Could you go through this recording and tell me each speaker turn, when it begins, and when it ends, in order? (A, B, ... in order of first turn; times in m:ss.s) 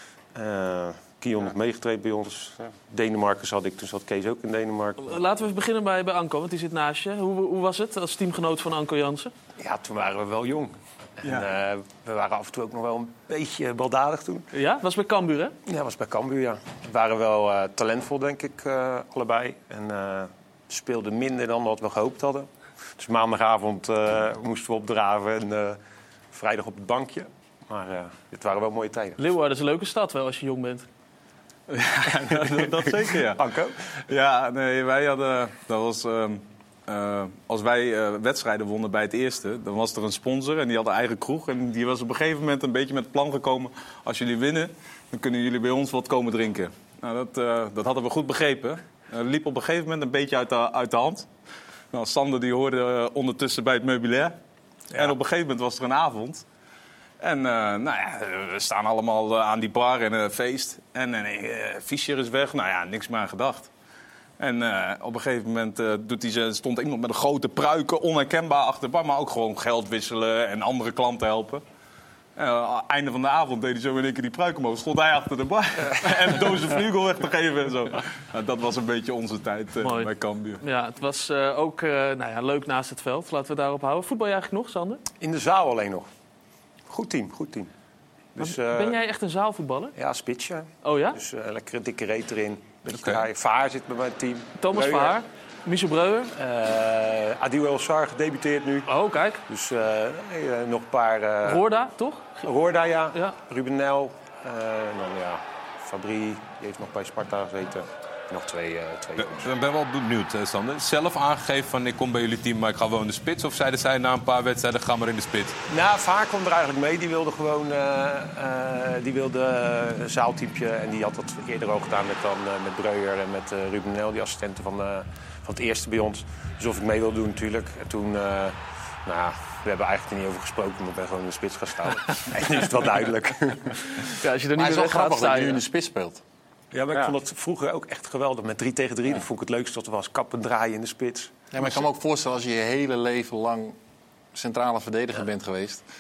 0:00.4-0:05.1 A
0:05.0-0:09.3 B
0:09.6-0:14.4 A
0:11.2-0:11.5 C
0:14.5-0:15.6 B
0:15.7-0:25.8 A
0:26.3-0:29.2 A
0:29.2-0:30.9 B
0:31.7-0:33.4 C
0:32.3-0:33.8 A
0:34.1-0:51.3 C
0:51.9-0:54.4 C
0:54.9-0:56.4 C
0:57.2-1:03.7 C
1:04.4-1:11.6 C
1:12.4-1:20.6 C
1:19.8-1:25.0 B
1:25.2-1:26.1 A
1:26.9-1:27.7 A
1:28.4-1:29.0 A
1:28.4-1:30.0 B
1:30.0-1:35.2 A
1:30.8-1:31.2 B
1:34.6-1:36.3 B
1:36.4-1:38.9 A
1:38.9-1:39.4 B
1:39.5-1:41.6 A
1:41.4-1:42.3 B
1:42.4-1:49.5 A
1:43.1-1:43.4 B
1:49.2-1:55.6 D
1:55.7-2:13.8 A
2:14.2-2:15.6 B
2:14.6-2:16.2 E
2:16.7-2:21.7 A
2:21.5-2:23.8 E
2:24.4-2:25.8 E